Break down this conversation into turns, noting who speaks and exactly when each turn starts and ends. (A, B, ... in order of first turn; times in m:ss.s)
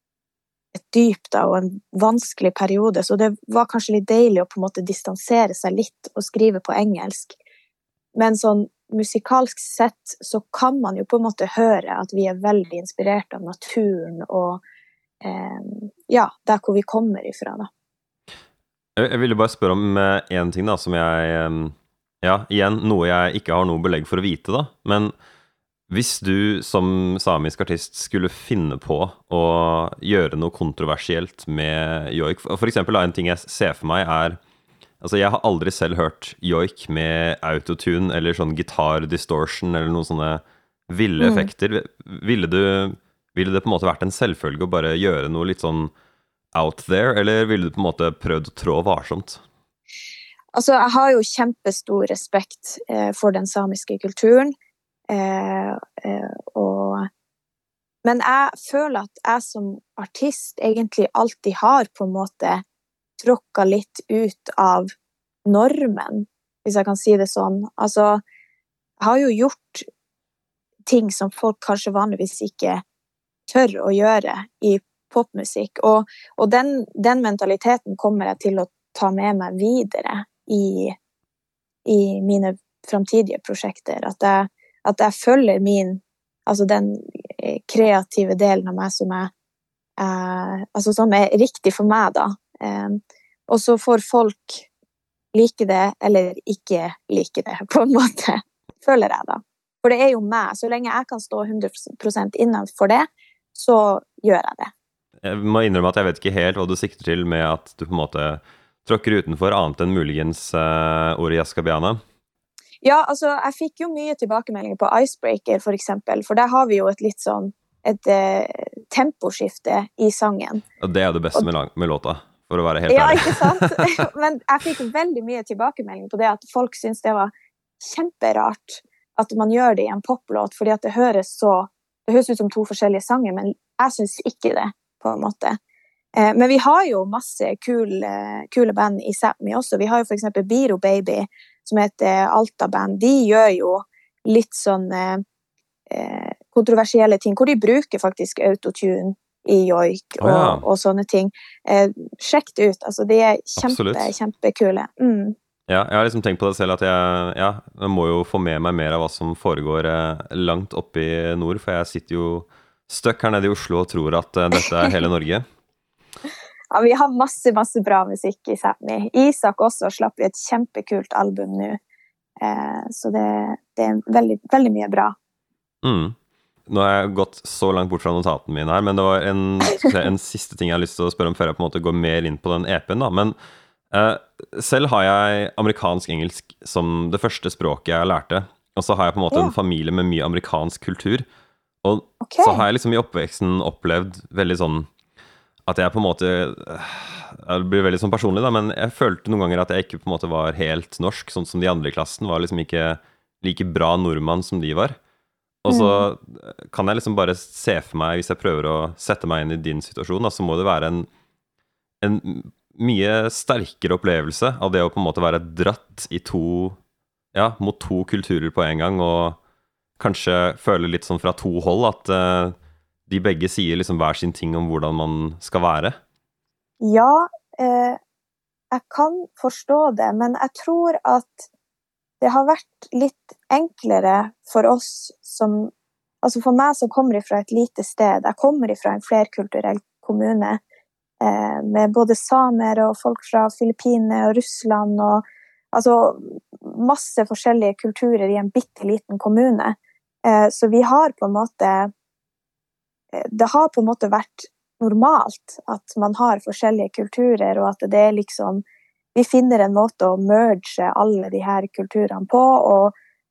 0:00.7-0:07.4 A
0:08.2-0:14.6 A
0:15.2-0:17.7 A
0:19.0-0:25.1 B
0:25.9-0:34.4 B
0:35.0-0:45.9 B
0:41.2-0:41.5 A
0:46.5-0:49.4 B
0:50.5-0:54.5 A
0:55.1-0:57.1 A
0:58.0-1:02.6 A
1:03.2-1:04.9 A
1:05.4-1:08.2 A
1:09.0-1:09.9 A
1:10.9-1:12.8 A
1:13.5-1:21.0 A
1:21.9-1:29.3 A
1:30.0-1:34.7 A
1:35.3-1:44.7 A
1:45.2-1:52.0 B
1:52.8-2:00.6 A
2:00.8-2:04.1 B
2:02.9-2:15.6 A
2:16.2-2:25.2 A
2:25.9-2:35.4 A
2:30.2-2:30.6 B
2:33.6-2:34.1 B
2:35.7-2:45.4 B
2:46.7-2:51.8 A
2:52.4-2:55.2 A
2:55.8-2:56.2 B
2:56.7-3:03.4 B
3:03.9-3:11.3 B
3:11.8-3:14.9 B
3:12.2-3:12.6 A
3:15.7-3:25.0 B
3:25.6-3:31.1 B
3:25.7-3:26.1 A
3:32.0-3:36.8 B
3:37.3-3:39.4 B
3:40.0-3:42.6 B
3:43.1-3:46.0 B
3:46.8-3:48.0 A
3:48.7-3:51.5 A
3:52.2-4:00.6 A
4:01.2-4:11.9 A
4:13.1-4:18.6 A
4:19.2-4:23.0 A